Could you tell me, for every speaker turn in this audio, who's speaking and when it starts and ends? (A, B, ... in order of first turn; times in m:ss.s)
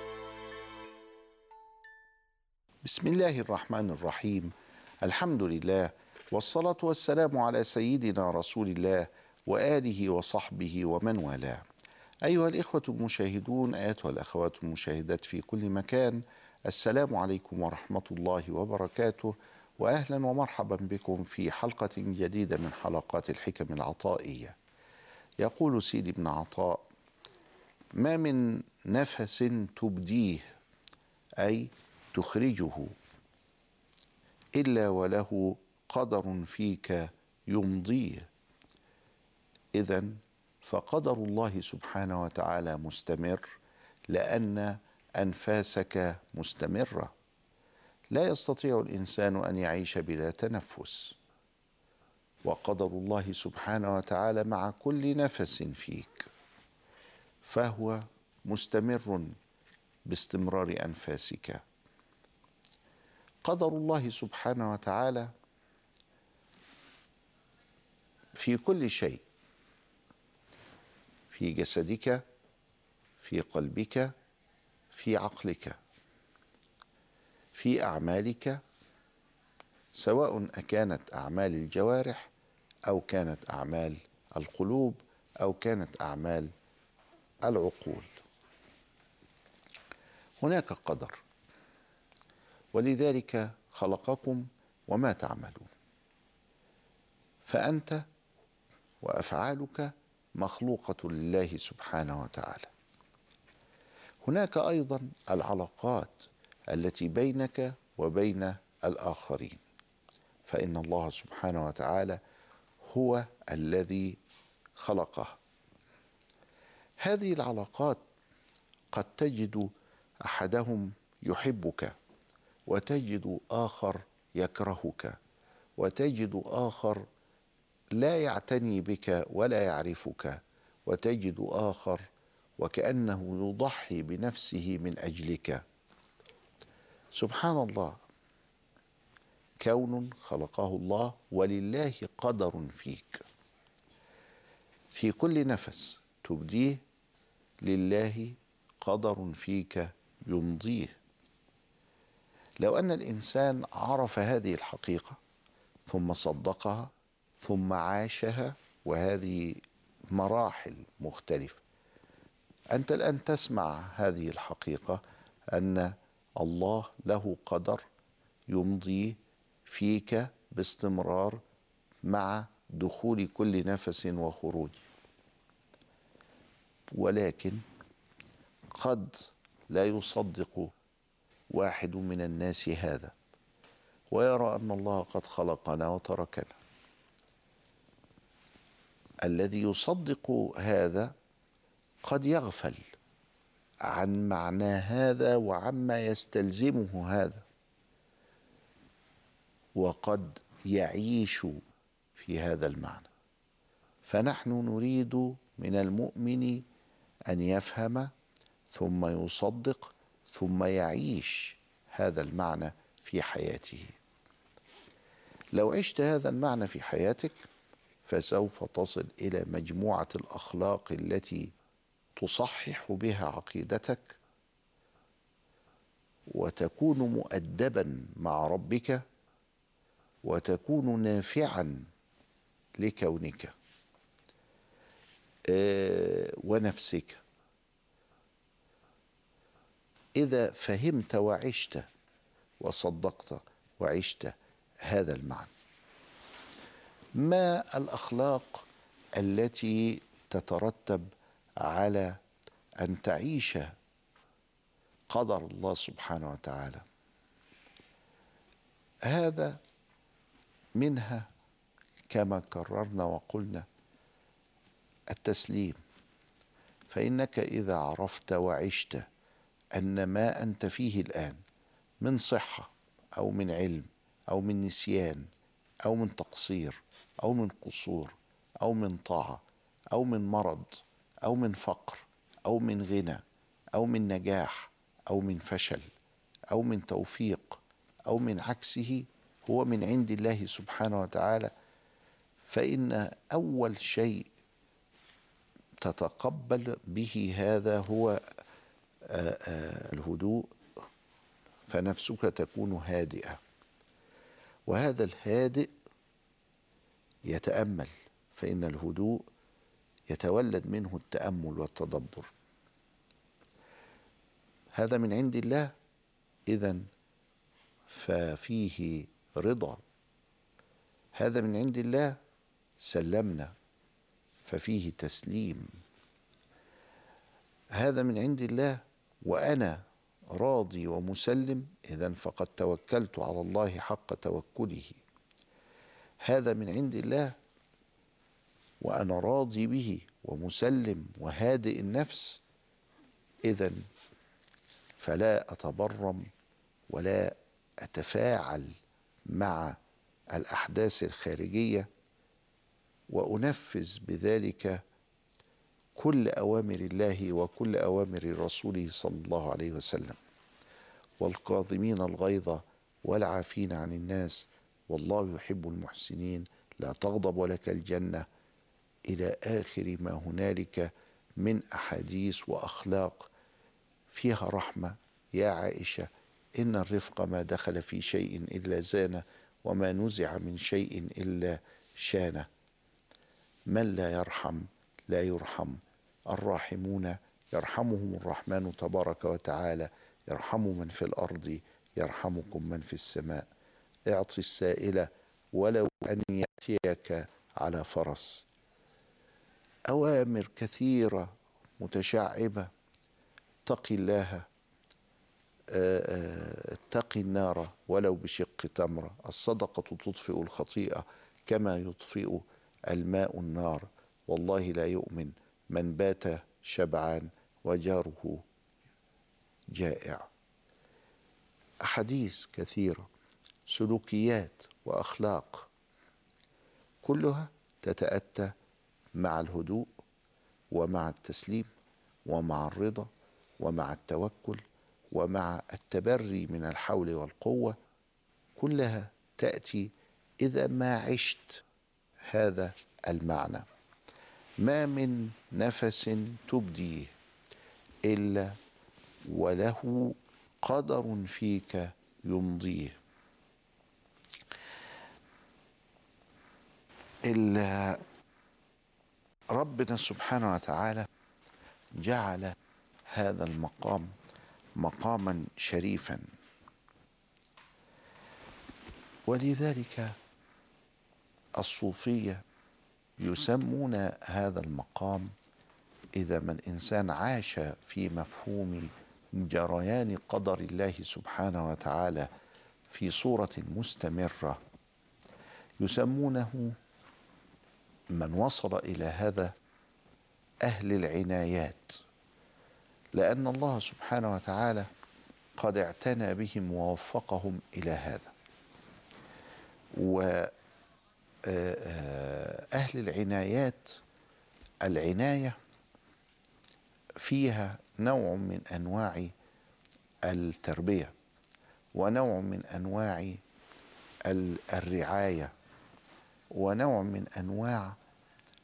0:02.8-0:11.6 A
0:12.2-0:24.6 A
0:25.4-0:26.8 A
0:28.0-0:30.5 A
0:31.4-0:32.9 A
0:34.5-0:38.3 A
0:39.7-0:43.4 A
0:44.1-0:47.1 A
0:48.1-0:51.2 A
0:52.4-0:56.3 A
0:57.4-0:59.3 A
1:00.1-1:01.6 A
1:03.4-1:05.3 A
1:08.4-1:09.2 A
1:11.3-1:12.2 A
1:13.2-1:14.1 A
1:14.9-1:15.8 A
1:17.5-1:18.6 A
1:19.9-1:22.3 A
1:22.9-1:26.5 A
1:27.4-1:28.1 A
1:30.4-1:31.2 A
1:32.7-1:35.7 A
1:37.4-1:38.0 A
1:39.0-1:42.7 A
1:44.2-1:49.6 A
1:50.5-1:52.2 A
1:52.8-1:54.2 A
1:54.8-1:55.4 A
1:57.0-1:58.0 A
1:58.9-1:59.7 A
2:00.2-2:01.9 A
2:02.7-2:05.2 A
2:05.8-2:07.0 A
2:07.9-2:12.0 A
2:12.6-2:15.6 A
2:17.1-2:18.0 A
2:19.6-2:23.2 A
2:24.9-2:26.8 A
2:27.6-2:31.0 A
2:32.6-2:35.2 A
2:35.9-2:41.6 A
2:42.7-2:45.0 A
2:45.5-2:47.8 A
2:48.5-2:51.4 A
2:52.0-2:54.8 A
2:56.9-2:57.6 A
2:58.7-3:00.7 A
3:01.5-3:03.1 A
3:04.1-3:06.6 A
3:09.2-3:11.1 A
3:12.0-3:12.8 A
3:13.9-3:17.4 A
3:19.8-3:21.6 A
3:22.2-3:23.1 A
3:24.0-3:26.6 A
3:27.3-3:28.1 A
3:28.7-3:34.0 A
3:35.5-3:37.4 A
3:38.0-3:41.5 A
3:42.2-3:44.2 A
3:46.3-3:49.0 A
3:50.2-3:51.9 A
3:52.8-3:53.5 A
3:55.5-3:57.2 A
4:00.2-4:01.8 A
4:02.6-4:05.5 A
4:07.2-4:11.1 A
4:11.6-4:12.2 A
4:12.8-4:13.7 A
4:15.1-4:16.8 A
4:19.0-4:19.6 A
4:20.8-4:21.3 A
4:22.1-4:23.6 A
4:25.1-4:25.8 A
4:26.9-4:29.0 A
4:29.7-4:31.4 A
4:32.0-4:35.3 A
4:35.8-4:43.2 A
4:43.8-4:45.9 A
4:46.5-4:51.5 A
4:52.4-4:54.3 A
4:55.8-4:58.2 A
4:59.0-5:00.5 A
5:01.6-5:03.4 A
5:04.7-5:05.7 A
5:07.2-5:09.2 A
5:10.1-5:12.3 A
5:14.7-5:15.7 A
5:16.5-5:16.9 A
5:17.9-5:19.8 A
5:21.1-5:22.2 A
5:22.8-5:23.5 A
5:24.4-5:25.7 A
5:27.7-5:29.8 A
5:30.3-5:35.0 A
5:36.2-5:37.3 A
5:38.8-5:42.4 A
5:43.4-5:43.8 A
5:45.0-5:46.3 A
5:46.9-5:48.7 A
5:49.2-5:49.8 A
5:50.3-5:51.9 A
5:53.1-5:54.8 A
5:56.0-6:00.2 A
6:01.2-6:08.2 A
6:09.0-6:13.3 A
6:14.1-6:22.5 A
6:23.7-6:33.5 A
6:34.1-6:38.4 A
6:39.9-6:42.7 A
6:43.6-6:44.5 A
6:45.7-6:58.4 A
6:59.7-7:00.3 A
7:01.8-7:03.1 A
7:03.7-7:05.7 A
7:07.0-7:08.5 A
7:09.2-7:09.9 A
7:10.7-7:11.7 A
7:12.2-7:13.1 A
7:13.6-7:17.8 A
7:18.6-7:21.6 A
7:22.3-7:23.6 A
7:24.6-7:27.1 A
7:28.0-7:28.6 A
7:29.2-7:33.0 A
7:37.3-7:38.0 A
7:39.5-7:41.1 A
7:42.0-7:42.5 A
7:43.1-7:44.1 A
7:44.8-7:46.2 A
7:49.3-7:50.2 A
7:51.6-7:52.4 A
7:53.2-7:55.3 A
7:56.1-8:02.3 A
8:02.9-8:04.6 A
8:05.8-8:06.8 A
8:08.1-8:09.5 A
8:10.6-8:12.0 A
8:13.1-8:14.9 A
8:15.6-8:18.3 A
8:19.9-8:20.5 A
8:21.4-8:24.0 A
8:24.8-8:25.6 A
8:27.2-8:29.3 A
8:30.2-8:31.1 A
8:31.9-8:33.4 A
8:34.2-8:35.5 A
8:36.5-8:38.0 A